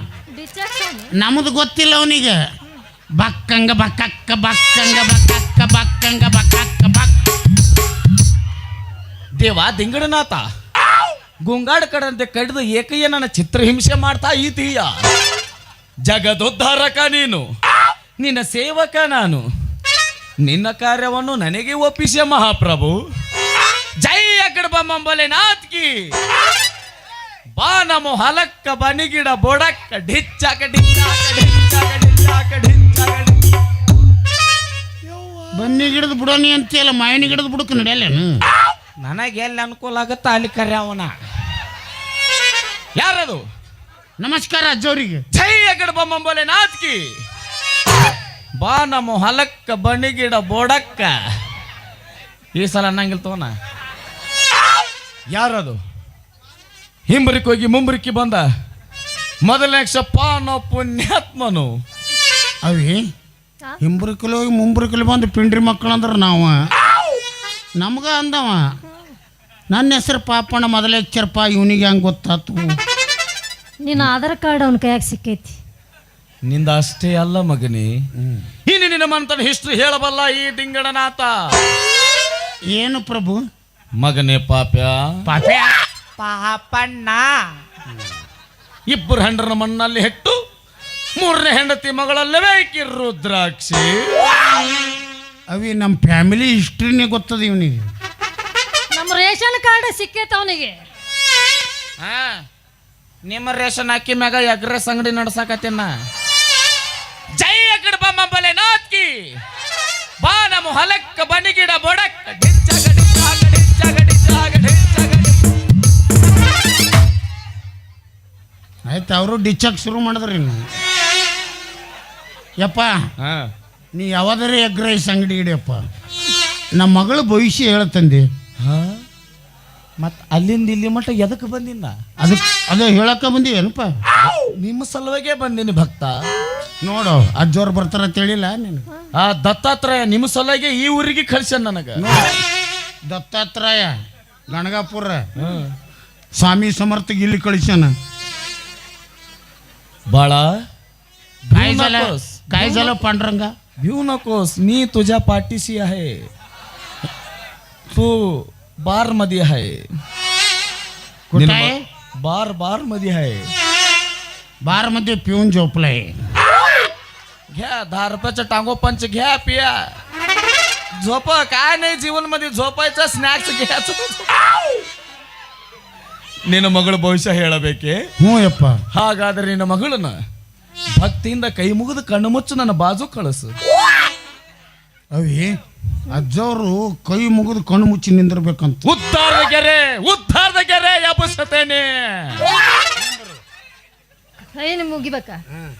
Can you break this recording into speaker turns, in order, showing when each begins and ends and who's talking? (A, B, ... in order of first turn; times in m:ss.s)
0:00.3-0:01.1 A
0:01.2-0:02.4 B
0:03.2-0:07.1 B
0:09.4-0:10.4 C
0:11.4-0:14.9 C
0:16.0-0:17.4 C
0:18.2-0:19.4 C
0:20.4-0:23.0 C
0:24.0-0:26.0 C
0:27.6-0:33.5 C
0:35.1-0:35.8 C
0:35.5-0:38.4 B
0:39.0-0:41.1 C
0:43.0-0:43.4 C
0:44.2-0:45.2 B
0:45.3-0:47.1 C
0:48.6-0:51.2 C
0:52.5-0:53.5 C
0:55.3-0:55.8 C
0:57.1-0:58.5 C
0:59.4-1:01.8 C
1:02.6-1:03.0 B
1:03.8-1:06.5 B
1:07.8-1:08.7 B
1:09.7-1:12.8 B
1:13.8-1:15.6 A
1:16.4-1:18.0 C
1:18.2-1:18.4 B
1:18.6-1:21.3 C
1:22.7-1:23.4 B
1:24.0-1:25.2 C
1:25.2-1:25.8 B
1:26.2-1:27.3 C
1:28.9-1:30.4 C
1:31.2-1:34.2 C
1:35.5-1:37.8 B
1:38.9-1:40.8 A
1:42.0-1:42.4 C
1:43.2-1:45.9 C
1:47.4-1:49.2 C
1:50.2-1:55.4 C
1:58.9-2:00.6 B
2:02.6-2:02.9 B
2:03.2-2:03.5 C
2:03.9-2:05.8 B
2:06.8-2:08.2 B
2:08.6-2:09.0 C
2:10.0-2:11.9 C
2:12.2-2:13.9 B
2:14.2-2:16.1 C
2:16.8-2:18.8 B
2:19.1-2:22.0 C
2:22.0-2:22.4 B
2:23.1-2:23.9 B
2:24.5-2:25.2 B
2:25.4-2:25.7 C
2:26.4-2:27.9 B
2:30.1-2:30.5 C
2:31.4-2:32.9 C
2:31.5-2:33.5 B
2:33.8-2:36.2 C
2:37.9-2:39.8 C
2:41.3-2:41.8 B
2:41.3-2:43.5 C
2:44.6-2:46.1 B
2:47.5-2:49.9 C
2:51.0-2:54.4 C
2:56.5-2:58.0 C
2:58.2-2:58.8 B
2:58.9-3:00.2 C
3:01.0-3:03.5 C
3:05.1-3:05.5 B
3:06.1-3:08.8 B
3:08.8-3:12.4 C
3:13.0-3:13.4 B
3:14.5-3:15.4 A